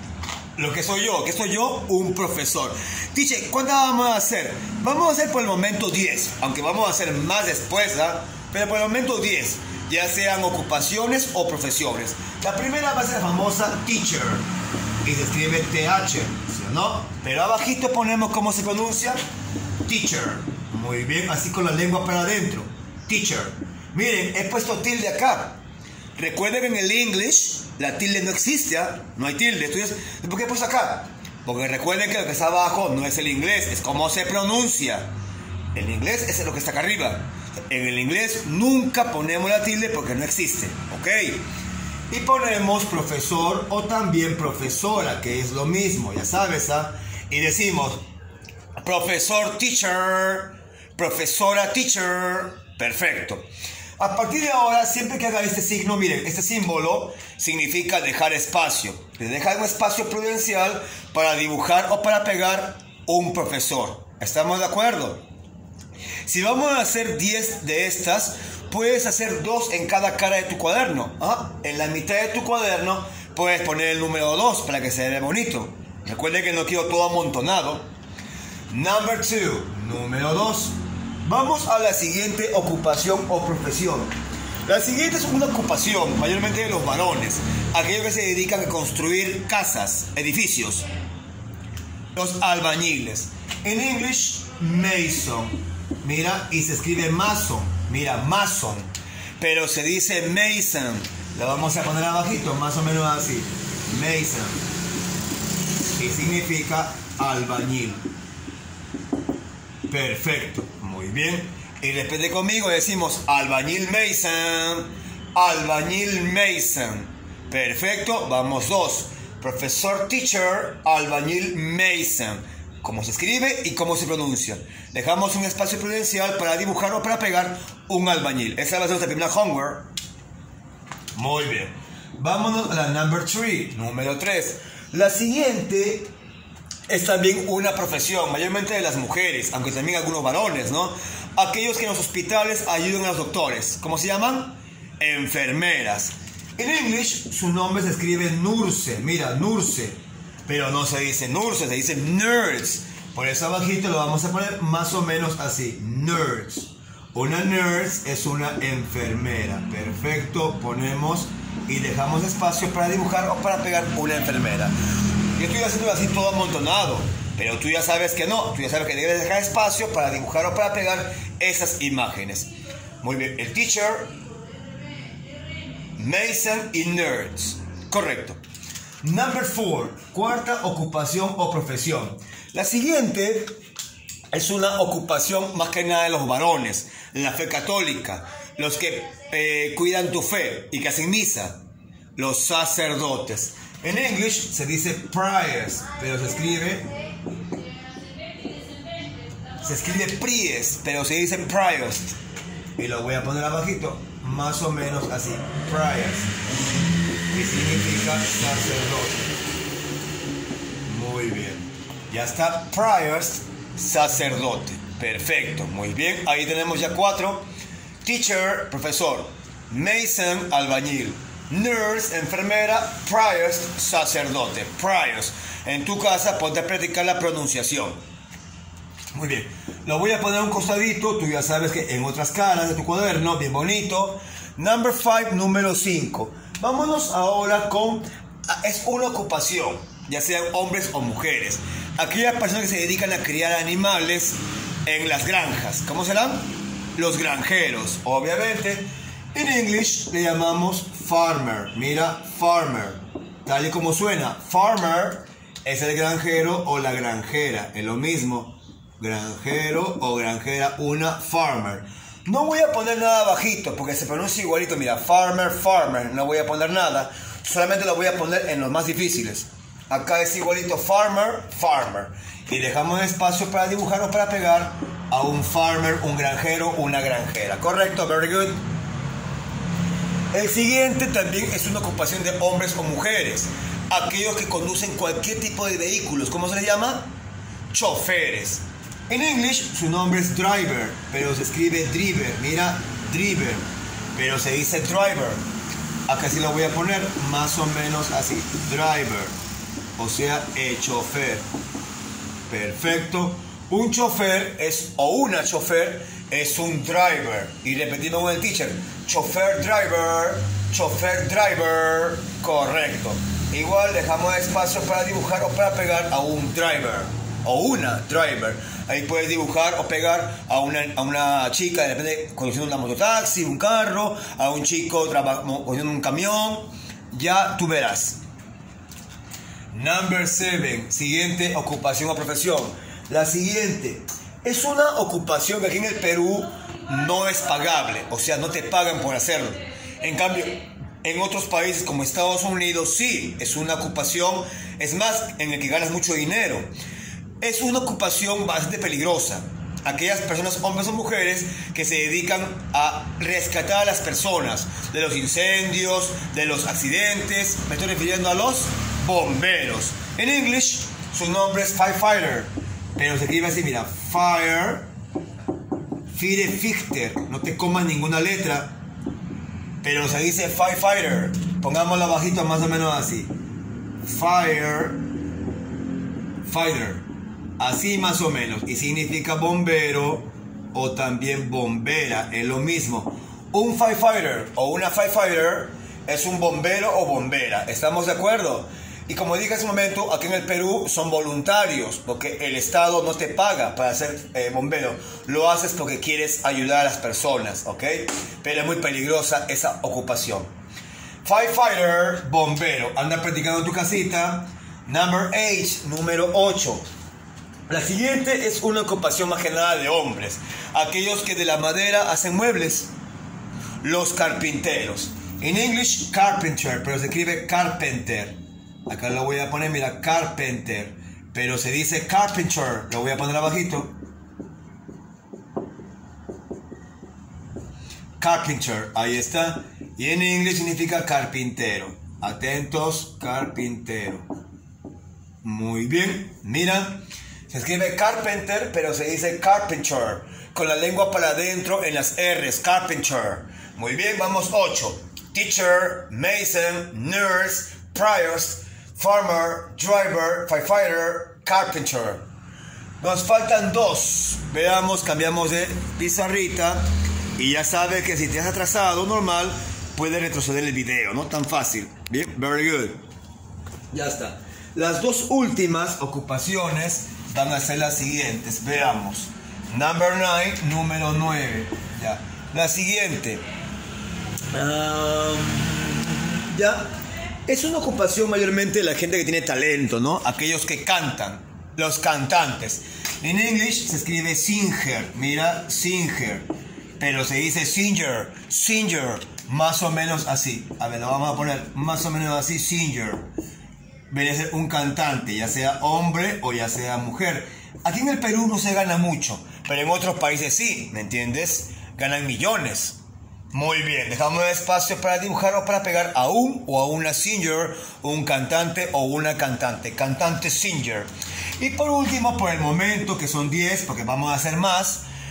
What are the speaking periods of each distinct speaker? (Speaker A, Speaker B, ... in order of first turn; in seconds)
Speaker A: 0.6-14.5, 15.0-19.2, 19.9-25.6, 26.2-35.1, 35.7-41.4, 42.1-48.0, 48.8-53.4, 54.0-65.2, 66.3-77.9, 78.7-84.1, 84.7-90.8, 92.2-104.6, 106.0-108.0, 109.9-129.9, 131.2-136.1, 136.9-164.7, 165.4-172.5, 173.0-174.1, 176.0-178.4, 179.0-183.5, 184.3-191.6, 192.2-196.9, 199.6-202.2, 202.8-206.3, 207.3-209.3, 210.9-217.5, 218.0-228.0, 229.1-278.6, 280.3-287.1, 287.7-295.4, 296.1-299.4, 300.0-301.4, 302.5-328.2, 329.7-346.7, 347.4-364.9, 366.1-368.8, 369.8-373.3, 374.0-375.0, 376.4-377.1, 377.6-400.5, 401.2-406.8, 407.7-412.9, 413.8-423.9, 428.2-434.3, 435.4-452.3, 453.0-456.8, 457.4-463.0, 463.9-473.4, 474.5-476.9, 477.5-486.5, 487.0-493.3, 494.1-503.0, 503.5-515.0